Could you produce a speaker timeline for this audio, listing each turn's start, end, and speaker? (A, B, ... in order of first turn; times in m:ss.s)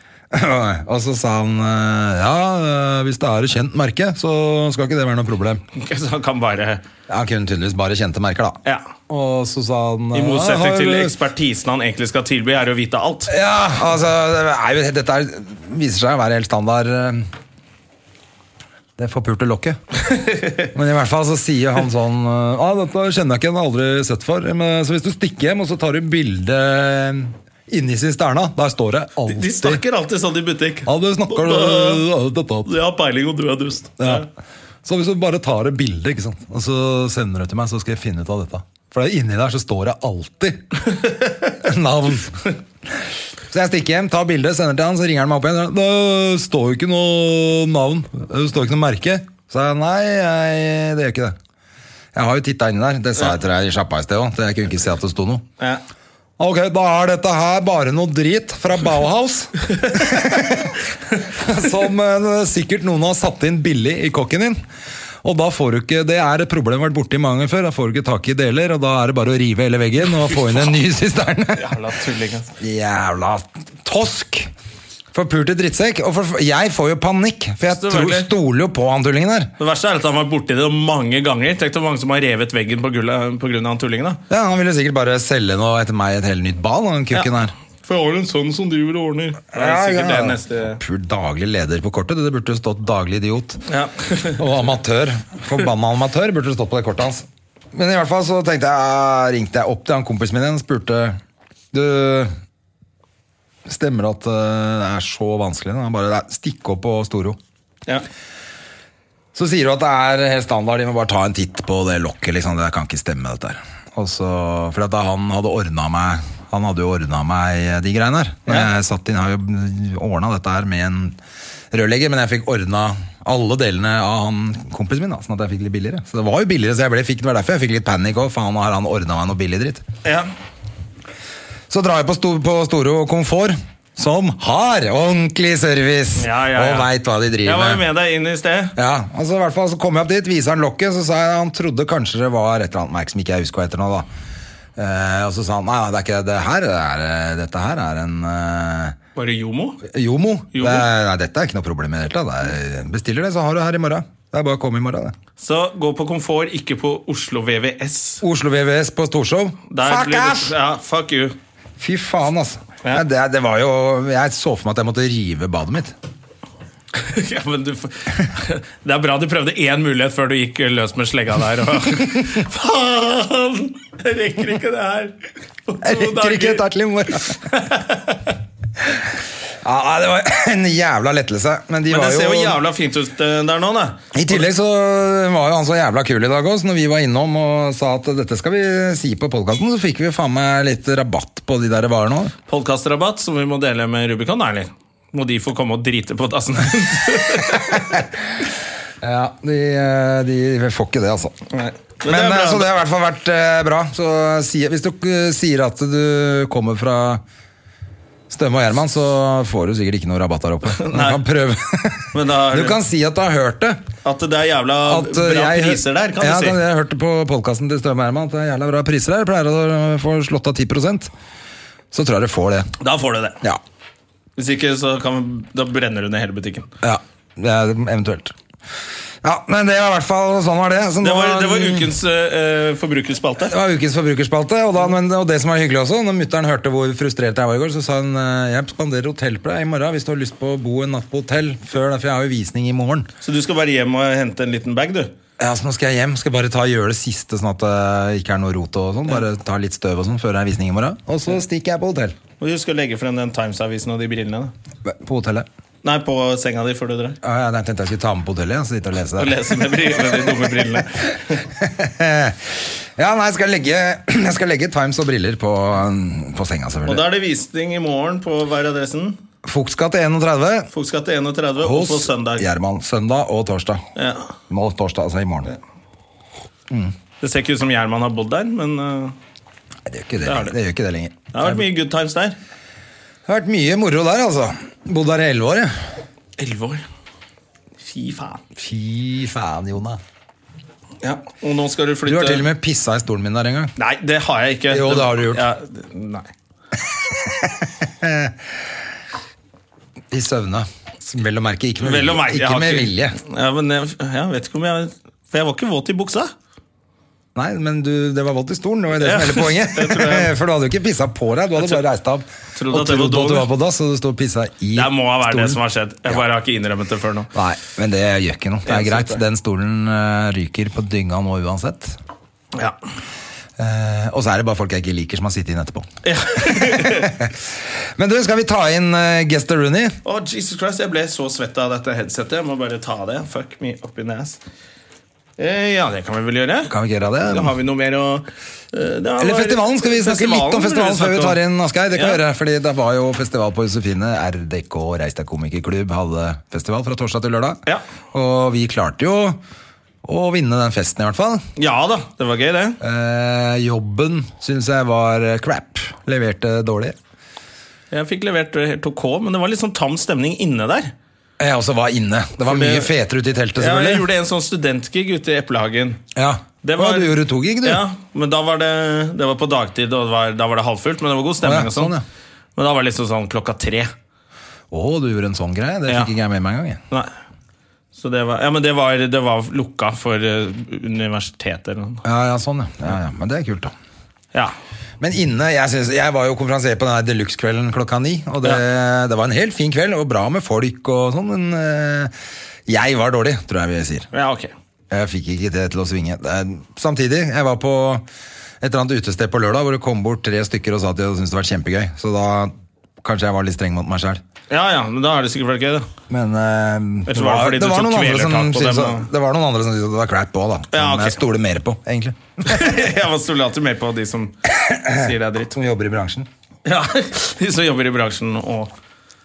0:00.3-0:05.6 A
0:05.8-0:06.8 B
0:07.1-0:11.1 A
0:10.1-0:13.3 B
0:13.3-0:17.3 A
0:19.0-0:19.8 A
0:20.0-0:20.7 B
0:20.7-0:29.8 A
0:29.3-0:32.0 B
0:30.9-0:32.8 A
0:32.6-0:34.3 B
0:34.0-0:34.3 A
0:34.8-0:40.6 A
0:40.9-0:41.5 B
0:41.6-0:51.4 A
0:52.1-0:55.4 A
0:56.4-1:04.6 A
1:05.2-1:11.7 A
1:11.5-1:12.5 B
1:12.6-1:14.5 A
1:15.1-1:19.5 A
1:17.7-1:18.3 B
1:19.6-1:24.2 B
1:24.3-1:27.5 A
1:27.8-1:30.8 B
1:29.5-1:33.6 A
1:33.6-1:34.4 B
1:34.4-1:41.2 A
1:41.7-1:42.3 A
1:43.6-1:47.4 A
1:49.4-2:01.2 A
2:01.7-2:09.8 A
2:10.0-2:10.3 B
2:11.7-2:17.8 A
2:16.2-2:16.9 B
2:17.4-2:18.8 B
2:18.8-2:24.1 A
2:24.8-2:29.0 A
2:29.2-2:29.8 B
2:29.8-2:35.1 A
2:30.5-2:30.9 B
2:35.4-2:38.2 B
2:38.2-2:40.5 A
2:39.7-2:41.4 B
2:41.8-2:45.9 A
2:46.9-2:56.6 B
2:55.8-2:57.4 A
2:57.2-2:58.2 B
2:58.8-2:59.1 A
2:59.6-3:02.6 A
3:01.9-3:04.4 B
3:04.1-3:12.3 A
3:12.5-3:18.0 B
3:17.8-3:18.0 A
3:19.0-3:21.4 A
3:21.5-3:22.7 B
3:22.0-3:27.2 A
3:28.3-3:33.8 A
3:30.7-3:31.2 B
3:32.1-3:32.8 B
3:34.0-3:36.6 B
3:34.8-3:41.1 A
3:41.9-3:42.7 A
3:42.8-3:43.4 B
3:44.4-3:46.7 B
3:46.8-3:48.4 A
3:49.2-3:51.9 A
3:51.0-3:53.5 B
3:53.4-4:03.1 A
4:03.2-4:05.1 B
4:05.4-4:12.2 A
4:12.4-4:14.5 B
4:14.8-4:15.5 A
4:15.8-4:17.2 B
4:17.2-4:20.4 A
4:19.2-4:21.4 B
4:21.4-4:27.0 A
4:26.9-4:29.2 B
4:29.4-4:30.7 A
4:30.7-4:32.5 B
4:31.6-4:33.8 A
4:34.0-4:34.3 B
4:34.5-4:35.5 A
4:37.2-4:39.2 B
4:39.9-4:41.6 A
4:40.2-4:40.5 B
4:41.3-4:42.4 B
4:43.2-4:45.8 A
4:46.4-4:46.8 B
4:47.8-4:48.4 B
4:48.6-4:50.0 A
4:51.0-4:52.4 B
4:52.0-4:53.7 A
4:53.8-4:56.3 B
4:54.7-4:55.5 A
4:57.1-4:58.6 A
5:00.1-5:03.2 A
5:01.8-5:06.3 B
5:07.4-5:15.6 A
5:09.0-5:10.3 B
5:12.5-5:13.5 B
5:14.7-5:17.3 B
5:17.3-5:22.0 A
5:18.6-5:19.2 B
5:23.6-5:27.4 A
5:26.0-5:27.1 B
5:28.0-5:30.0 A
5:30.0-5:34.4 B
5:35.4-5:36.7 B
5:36.7-5:37.5 A
5:37.3-5:41.4 B
5:39.2-5:47.6 A
5:41.9-5:42.2 B
5:48.1-5:49.4 A
5:50.0-5:51.4 A
5:51.6-5:52.8 B
5:52.8-5:57.0 A
5:57.9-6:00.9 B
6:01.4-6:04.1 A
6:02.4-6:02.9 B
6:03.6-6:06.0 B
6:06.1-6:07.8 A
6:06.6-6:11.9 B
6:11.4-6:12.0 A
6:12.6-6:13.9 B
6:14.7-6:16.8 A
6:15.9-6:16.1 B
6:18.0-6:22.0 B
6:22.0-6:23.7 A
6:25.0-6:32.1 A
6:32.7-6:34.1 A
6:34.1-6:34.5 B
6:34.9-6:38.0 A
6:38.6-6:44.2 A
6:44.5-6:45.9 B
6:46.1-6:52.8 A
6:47.1-6:49.1 B
6:50.7-6:51.2 B
6:52.4-6:54.4 B
6:54.5-6:56.3 A
6:54.9-6:55.5 B
6:56.6-6:58.7 B